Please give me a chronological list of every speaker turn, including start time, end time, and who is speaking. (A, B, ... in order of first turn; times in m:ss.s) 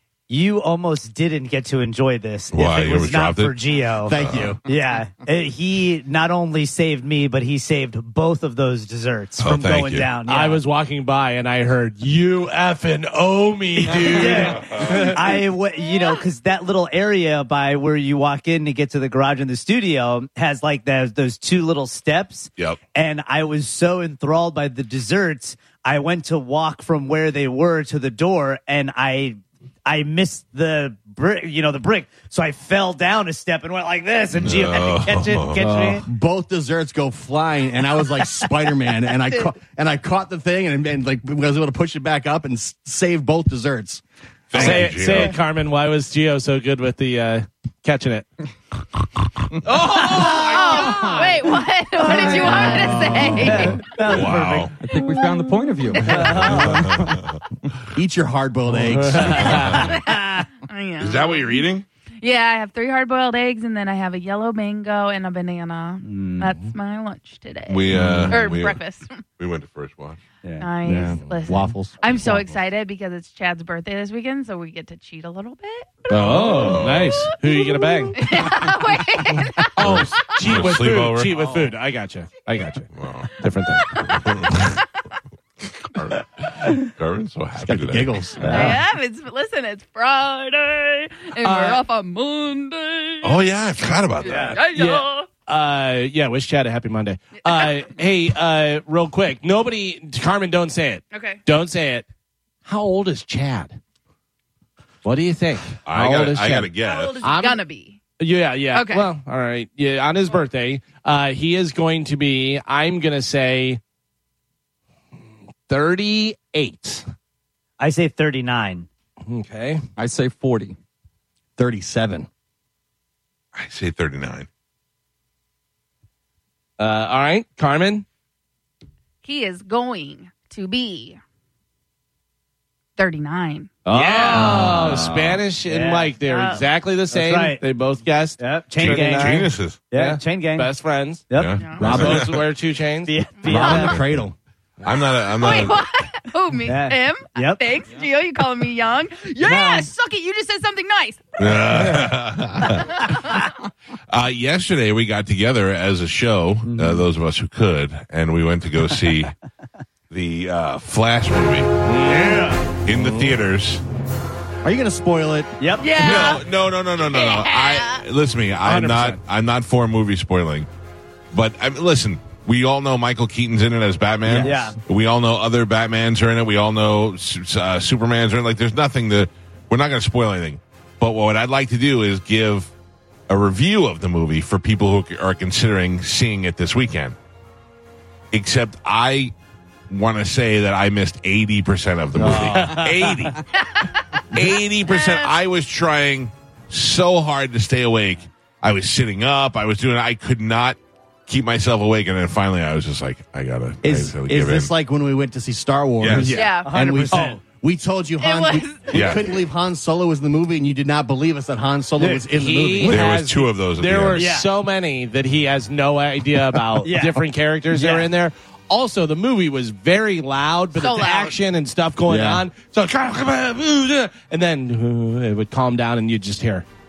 0:00.3-0:04.1 A
0:02.5-0:03.6 B
0:04.0-0:04.6 C
0:04.1-0:04.6 B
0:04.6-0:10.6 A
0:09.4-0:10.1 B
0:10.3-0:15.2 D
0:13.9-0:36.1 A
0:34.3-0:35.6 B
0:35.6-0:44.0 C
0:39.1-0:39.5 A
0:44.5-0:45.4 B
0:44.5-0:48.3 D
0:44.6-0:45.4 A
0:49.9-0:51.2 A
0:49.9-0:53.8 E
0:52.0-0:54.8 A
0:52.3-0:53.6 C
0:54.0-0:54.7 B
0:54.8-0:57.2 F
0:55.9-0:56.3 E
0:56.1-0:56.8 A
0:56.2-0:57.4 B
0:58.0-0:59.8 C
0:59.0-0:59.8 D
0:59.2-0:59.9 B
0:59.7-1:01.7 E
1:00.1-1:00.4 A
1:01.0-1:01.9 B
1:02.2-1:09.2 E
1:06.0-1:06.6 A
1:07.7-1:08.8 B
1:08.0-1:08.4 C
1:09.4-1:10.2 B
1:10.6-1:16.8 E
1:10.8-1:12.5 C
1:16.1-1:18.4 D
1:16.1-1:17.2 B
1:17.3-1:21.7 E
1:19.8-1:22.9 D
1:19.8-1:21.4 B
1:23.0-1:23.3 B
1:23.4-1:23.9 D
1:23.7-1:24.1 E
1:24.0-1:24.7 B
1:25.8-1:28.5 B
1:27.6-1:28.8 C
1:28.4-1:33.6 E
1:31.4-1:31.8 D
1:33.2-1:34.6 B
1:34.2-1:35.3 E
1:34.3-1:34.6 A
1:34.6-1:42.0 D
1:37.4-1:37.8 E
1:41.1-1:41.4 E
1:42.6-1:43.8 D
1:45.0-1:46.7 D
1:45.9-1:47.2 B
1:46.8-1:48.0 E
1:47.2-1:47.6 D
1:48.2-1:53.8 D
1:48.7-1:49.1 E
1:55.7-1:57.0 D
1:57.8-1:58.9 A
1:59.3-1:59.8 D
2:00.0-2:00.8 F
2:01.6-2:02.3 C
2:03.5-2:04.5 B
2:06.8-2:08.0 D
2:09.2-2:11.2 E
2:13.0-2:13.7 E
2:13.9-2:21.2 D
2:13.9-2:16.1 A
2:14.5-2:14.9 C
2:16.2-2:16.7 E
2:17.1-2:17.6 A
2:18.4-2:20.7 A
2:18.8-2:19.8 B
2:21.3-2:21.6 A
2:21.4-2:22.4 B
2:21.6-2:21.9 E
2:21.8-2:22.2 C
2:21.9-2:23.1 D
2:23.1-2:24.0 A
2:23.4-2:23.8 E
2:23.5-2:24.4 C
2:23.7-2:24.3 B
2:24.8-2:25.8 B
2:25.3-2:31.9 E
2:26.7-2:27.6 A
2:29.4-2:29.9 A
2:31.4-2:33.1 B
2:32.9-2:33.5 E
2:34.1-2:39.3 B
2:36.6-2:37.1 A
2:40.1-2:41.9 B
2:41.9-2:43.4 D
2:42.1-2:42.6 A
2:42.9-2:43.8 B
2:44.6-2:45.6 C
2:45.6-2:45.9 A
2:45.8-2:46.5 E
2:46.0-2:50.7 B
2:47.0-2:48.0 E
2:48.6-2:49.2 D
2:51.3-3:02.7 B
2:54.3-2:54.5 C
2:54.4-2:54.8 A
3:03.3-3:07.2 B
3:08.3-3:09.3 B
3:09.9-3:13.4 B
3:12.2-3:12.9 C
3:12.4-3:13.0 A
3:13.5-3:14.2 E
3:14.3-3:24.7 B
3:14.8-3:15.4 E
3:23.8-3:33.1 C
3:26.0-3:26.4 B
3:26.2-3:26.7 E
3:26.6-3:27.4 A
3:27.1-3:27.4 D
3:28.2-3:29.4 E
3:28.9-3:29.3 B
3:32.0-3:32.3 A
3:32.3-3:46.7 D
3:32.8-3:34.3 B
3:34.1-3:34.5 A
3:36.8-3:38.1 A
3:40.8-3:41.4 E
3:42.1-3:42.4 C